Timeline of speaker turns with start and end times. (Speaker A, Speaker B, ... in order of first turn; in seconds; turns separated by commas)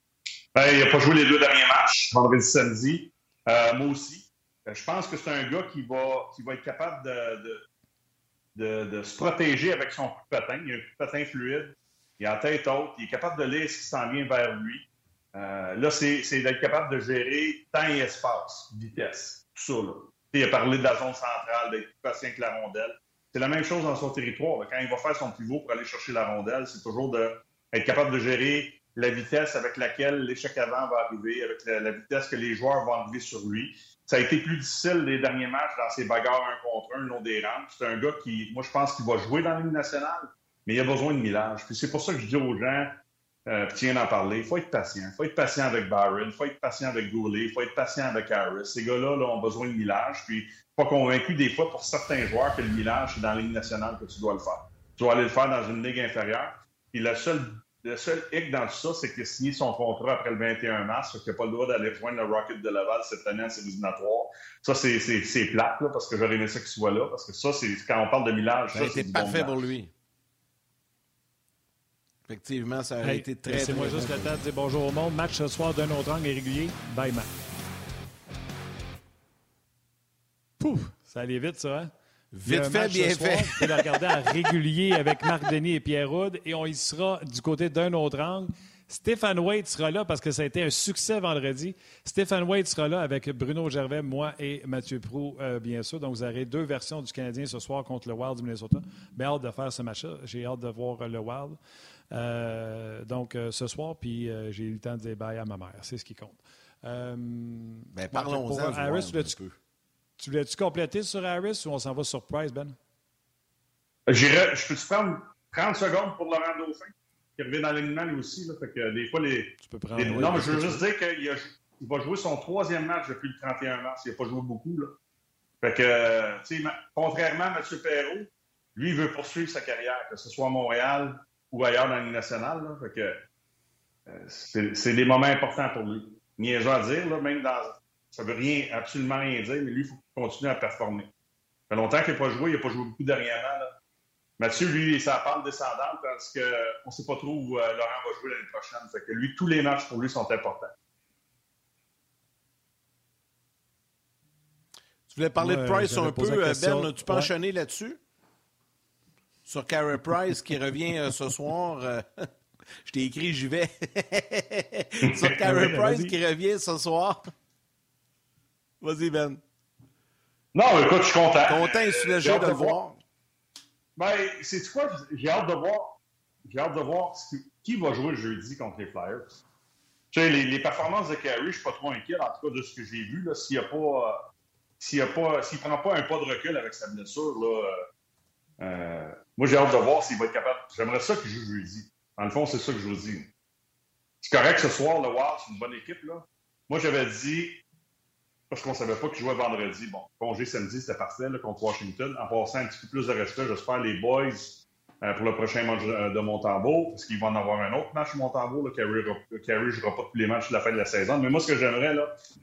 Speaker A: 0.5-7.6, Speaker A: 8.5-69.7, Speaker B: 68.7-69.9, Speaker B: 72.3-74.3, Speaker C: 73.0-77.3, Speaker C: 80.6-81.9, Speaker B: 82.3-84.0, Speaker C: 82.4-101.6, Speaker C: 102.1-109.4, Speaker B: 107.9-109.5, Speaker C: 110.2-112.8, Speaker A: 114.1-125.0, Speaker C: 119.6-120.8, Speaker A: 125.6-133.2, Speaker A: 134.1-141.1, Speaker A: 141.7-143.8, Speaker A: 144.4-150.7, Speaker B: 155.1-158.0, Speaker C: 155.4-157.3, Speaker B: 159.4-162.3, Speaker B: 162.8-167.2, Speaker A: 165.0-165.4, Speaker C: 165.4-166.2, Speaker B: 168.8-169.4, Speaker A: 170.5-172.8, Speaker B: 171.4-173.0, Speaker A: 173.9-179.4, Speaker A: 180.1-184.3, Speaker A: 184.8-187.7, Speaker A: 188.6-193.3, Speaker A: 194.2-197.6, Speaker A: 198.5-212.1